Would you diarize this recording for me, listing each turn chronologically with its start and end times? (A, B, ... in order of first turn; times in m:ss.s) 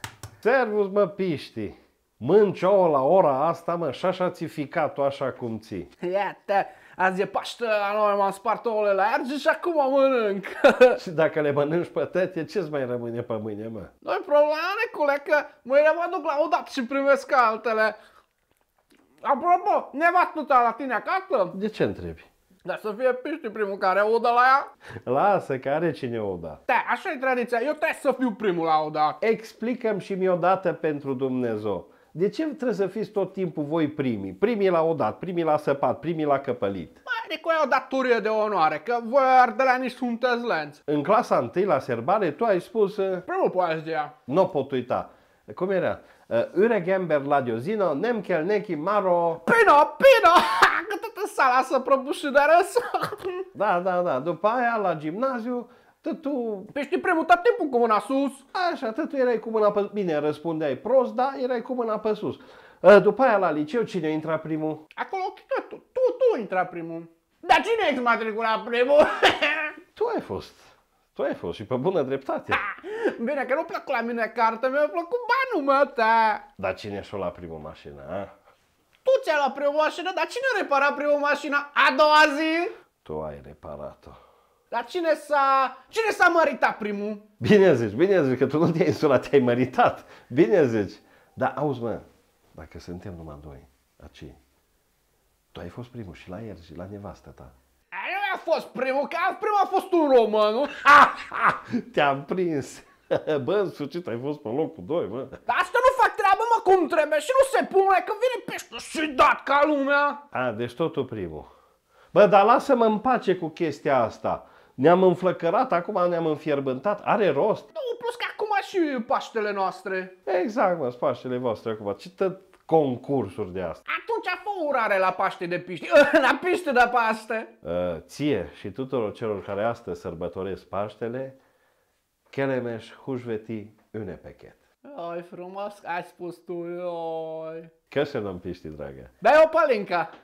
0:00.4-0:05.9 A
0:06.0-0:11.0 B
0:11.0-0:13.9 A
0:14.0-0:18.0 B
0:19.2-0:21.6 B
0:21.5-0:22.3 A
0:22.6-0:24.7 B
0:25.1-0:26.6 A
0:26.7-0:29.2 B
0:29.2-0:37.0 A
0:37.1-0:40.8 B
0:40.9-0:43.3 A
0:43.3-0:44.2 B
0:44.3-0:49.4 A
0:49.4-0:53.5 B
0:53.5-0:56.7 A
0:56.7-0:58.4 B
0:58.5-1:04.8 A
1:05.0-1:09.8 B
1:10.0-1:12.6 A
1:12.5-1:16.4 B
1:16.6-1:18.3 A
1:19.0-1:22.7 B
1:23.0-1:24.2 A
1:24.7-1:27.2 B
1:27.4-1:34.4 A
1:35.5-1:37.5 A
1:37.9-1:41.0 B
1:40.9-1:45.4 A
1:45.5-1:50.2 B
1:50.3-1:51.5 A
1:52.1-1:57.7 A
1:57.7-2:00.1 B
2:00.3-2:03.8 A
2:03.9-2:07.5 B
2:07.6-2:11.4 A
2:12.3-2:14.6 A
2:14.8-2:17.7 B
2:17.9-2:19.1 A
2:19.2-2:20.1 B